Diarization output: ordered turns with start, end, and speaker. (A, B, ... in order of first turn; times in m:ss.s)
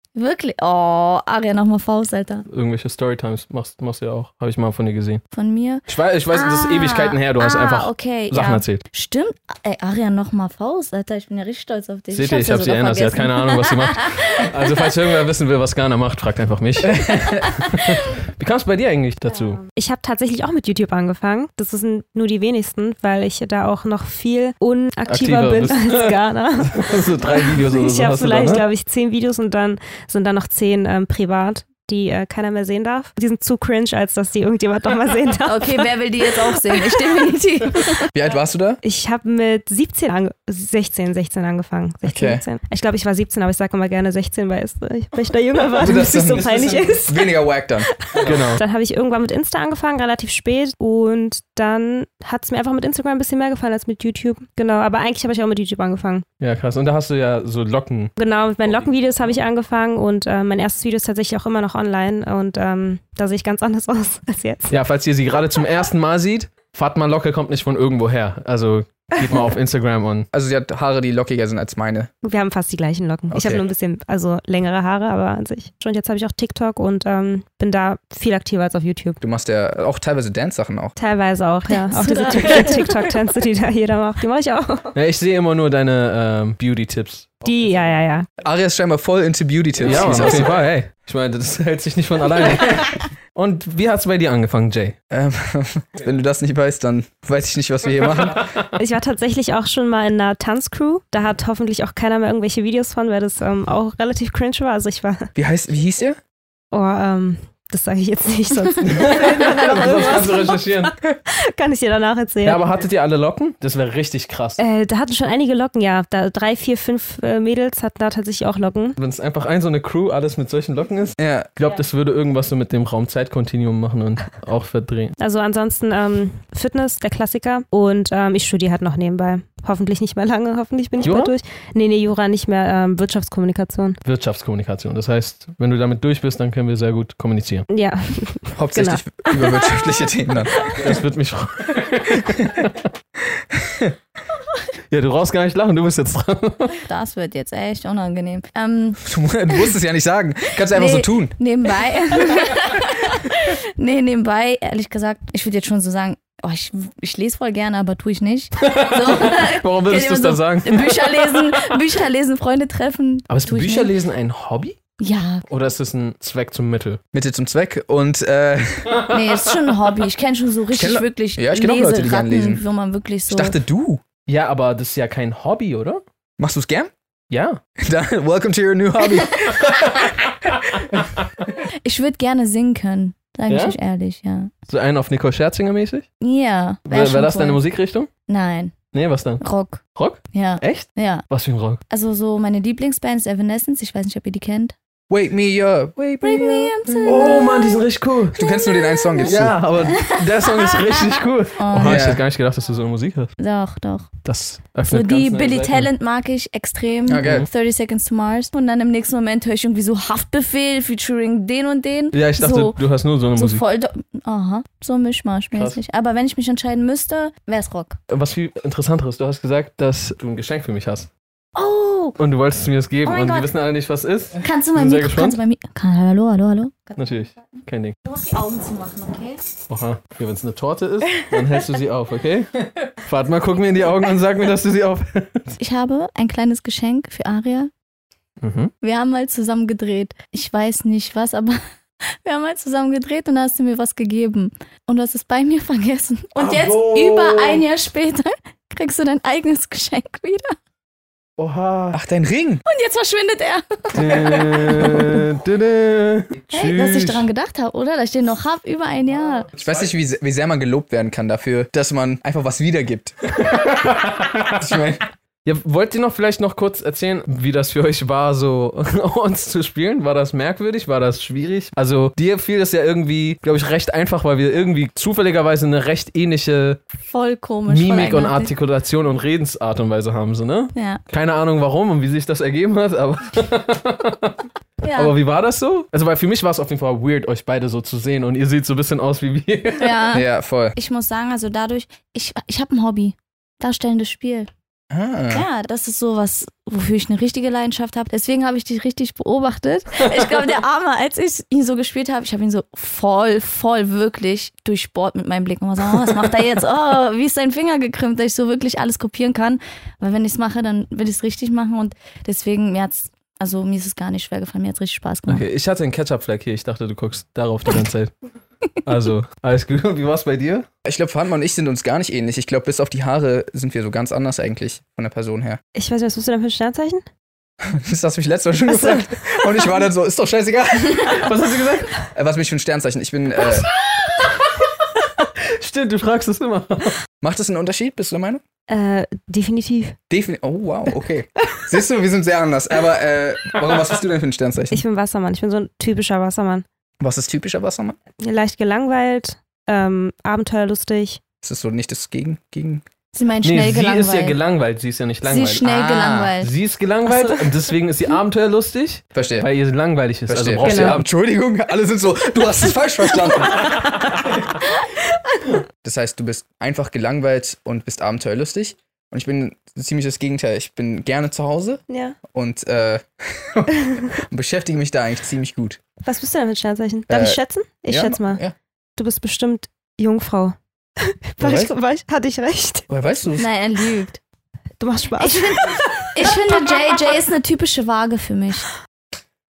0:00.1-0:02.4 A
0:02.5-0:05.2 B
0:05.3-0:14.6 A
0:05.9-0:08.8 B
0:12.1-0:19.6 B
0:19.3-0:37.2 C
0:25.1-0:28.6 B
0:35.4-0:38.1 A
0:38.1-0:38.8 D
0:38.8-0:47.4 C
0:42.0-0:42.4 D
0:45.8-0:48.3 D
0:48.0-0:56.2 C
0:48.2-0:48.6 B
0:56.4-0:58.1 B
0:58.2-1:04.8 C
1:04.7-1:10.3 B
1:10.3-1:12.1 D
1:12.2-1:19.2 C
1:13.3-1:13.6 D
1:19.2-1:20.9 D
1:21.0-1:24.9 C
1:21.7-1:23.1 A
1:24.9-1:27.6 B
1:27.4-1:28.3 C
1:28.4-1:30.6 D
1:29.8-1:35.0 B
1:35.1-1:38.6 D
1:38.7-1:45.3 C
1:45.4-1:46.2 D
1:46.7-1:52.6 C
1:48.8-1:50.9 B
1:52.4-1:54.6 B
1:54.6-1:59.0 C
1:59.0-2:05.2 B
2:01.2-2:01.5 D
2:05.2-2:14.0 C
2:11.0-2:11.3 B
2:14.0-2:17.6 B
2:17.7-2:19.8 C
2:18.5-2:20.6 D
2:20.8-2:22.9 B
2:24.9-2:26.8 B
2:26.8-2:29.7 A
2:29.0-2:31.3 D
2:30.6-2:43.9 A
2:38.6-2:41.4 B
2:43.3-2:44.8 B
2:45.0-2:45.5 A
2:45.5-2:47.0 B
2:47.1-2:49.0 D
2:49.1-2:53.6 A
2:50.7-2:52.6 D
2:53.3-2:54.0 D
2:54.3-2:56.0 B
2:56.4-2:56.9 D
2:57.3-2:57.6 B
2:57.8-2:59.6 D
2:59.6-3:00.8 B
3:01.8-3:04.5 A
3:03.5-3:03.8 B
3:04.7-3:06.1 B
3:06.2-3:07.6 A
3:06.9-3:08.1 B
3:08.3-3:08.8 A
3:08.9-3:09.4 B
3:09.4-3:11.2 A
3:10.0-3:11.8 B
3:11.9-3:14.7 A
3:15.1-3:17.4 D
3:16.2-3:17.8 A
3:17.0-3:18.4 B
3:18.3-3:19.8 D
3:18.4-3:22.1 A
3:19.2-3:23.3 B
3:21.8-3:22.2 D
3:23.4-3:24.1 A
3:24.2-3:25.9 B
3:24.8-3:32.8 A
3:27.1-3:27.5 D
3:32.1-3:33.6 B
3:33.3-3:38.0 A
3:35.5-3:35.8 B
3:38.1-3:41.1 B
3:41.5-3:42.2 A
3:42.2-3:45.4 B
3:43.0-3:43.5 A
3:44.4-3:49.4 A
3:47.0-3:47.9 B
3:49.7-3:55.5 B
3:55.6-3:57.7 A
3:58.4-3:58.7 B
3:58.8-4:01.6 A
4:02.2-4:10.6 A
4:06.4-4:07.6 B
4:11.4-4:12.0 B
4:11.9-4:12.6 D
4:12.6-4:15.2 A
4:13.9-4:17.3 B
4:16.5-4:19.5 A
4:19.6-4:23.1 D
4:23.4-4:24.5 B
4:24.5-4:25.0 D
4:25.4-4:36.8 B
4:37.0-4:38.5 A
4:37.7-4:44.4 B
4:40.7-4:41.0 A
4:44.8-4:45.1 A
4:44.9-4:50.0 B
4:49.8-4:54.5 A
4:50.1-4:50.8 D
4:54.9-4:55.4 D
4:55.3-5:15.4 A
5:15.3-5:18.1 B
5:18.8-5:20.7 B
5:20.8-5:25.6 D
5:25.7-5:27.0 C
5:27.6-5:31.3 D
5:28.6-5:29.5 C
5:31.0-5:32.0 B
5:32.1-5:33.7 D
5:33.4-5:37.0 B
5:37.2-5:38.4 D
5:38.7-5:40.0 C
5:40.1-5:44.8 D
5:44.7-5:46.6 C
5:47.0-5:48.0 D
5:48.2-5:51.2 C
5:51.4-5:52.8 D
5:53.1-5:54.4 A
5:53.4-5:55.6 B
5:55.2-5:56.5 A
5:55.6-5:56.3 D
5:56.4-6:01.0 B
5:57.1-5:57.4 C
5:59.1-5:59.5 D
6:00.3-6:03.8 D
6:00.6-6:01.0 C
6:05.8-6:15.8 D
6:11.9-6:12.2 C
6:16.0-6:18.4 C
6:17.1-6:18.5 D
6:19.0-6:22.9 C
6:21.4-6:21.7 D
6:22.9-6:23.4 D
6:23.4-6:24.2 A
6:24.8-6:26.0 C
6:25.2-6:28.7 A